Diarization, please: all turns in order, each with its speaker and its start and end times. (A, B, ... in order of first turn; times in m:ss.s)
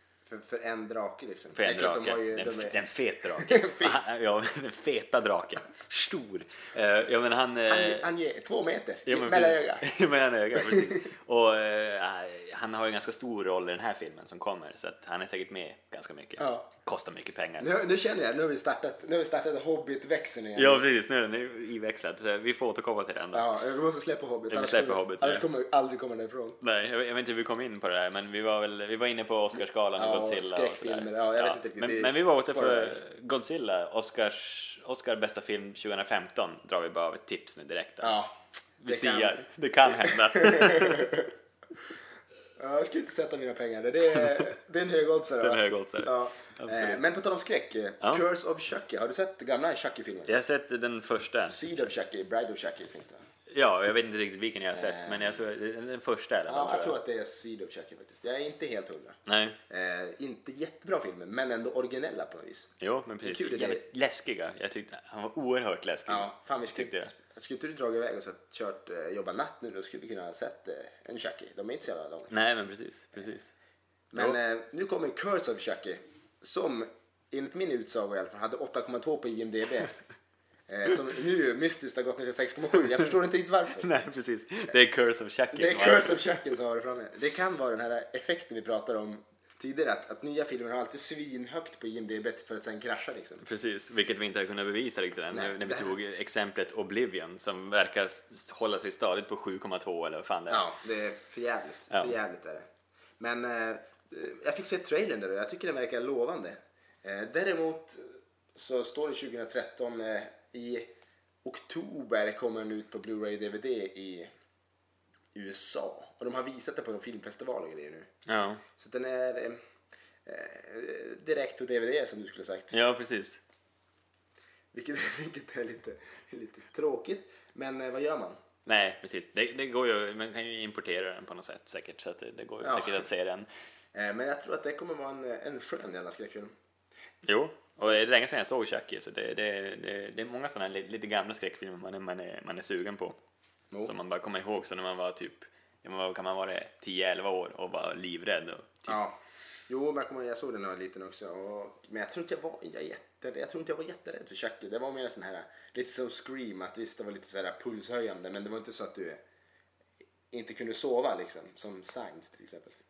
0:00.3-0:04.0 A
0:01.5-0:08.1 B
0:07.7-0:09.9 A
0:09.1-0:17.7 B
0:10.6-0:11.0 A
0:16.4-0:16.7 A
0:17.6-0:20.8 A
0:20.6-0:23.5 B
0:23.3-0:26.6 A
0:24.5-0:25.5 B
0:26.6-0:38.2 B
0:30.0-0:33.0 A
0:38.0-0:38.3 A
0:38.8-0:41.1 B
0:38.9-0:41.3 A
0:42.6-0:50.4 A
0:45.4-0:47.0 B
0:50.3-0:51.9 B
0:51.5-0:53.2 A
0:53.5-0:57.0 B
0:54.7-0:55.4 A
0:56.5-0:59.2 A
0:59.3-0:59.6 B
0:59.7-1:02.7 A
1:02.8-1:07.1 B
1:03.2-1:03.8 A
1:06.1-1:12.3 A
1:12.3-1:13.5 B
1:14.1-1:20.0 A
1:20.7-1:23.9 A
1:23.8-1:26.2 B
1:25.5-1:33.4 A
1:33.4-1:40.7 B
1:35.3-1:36.0 A
1:40.5-1:42.7 A
1:41.9-1:42.2 B
1:43.2-1:50.9 A
1:51.4-1:54.3 A
1:55.4-1:58.1 A
1:58.3-1:58.6 B
1:58.8-1:59.6 A
2:00.3-2:02.8 A
2:02.7-2:03.4 B
2:04.7-2:08.4 A
2:08.7-2:13.5 B
2:12.6-2:13.1 A
2:13.9-2:16.5 A
2:17.2-2:23.2 B
2:23.8-2:29.0 B
2:28.9-2:29.2 A
2:29.7-2:39.2 A
2:40.3-2:42.8 A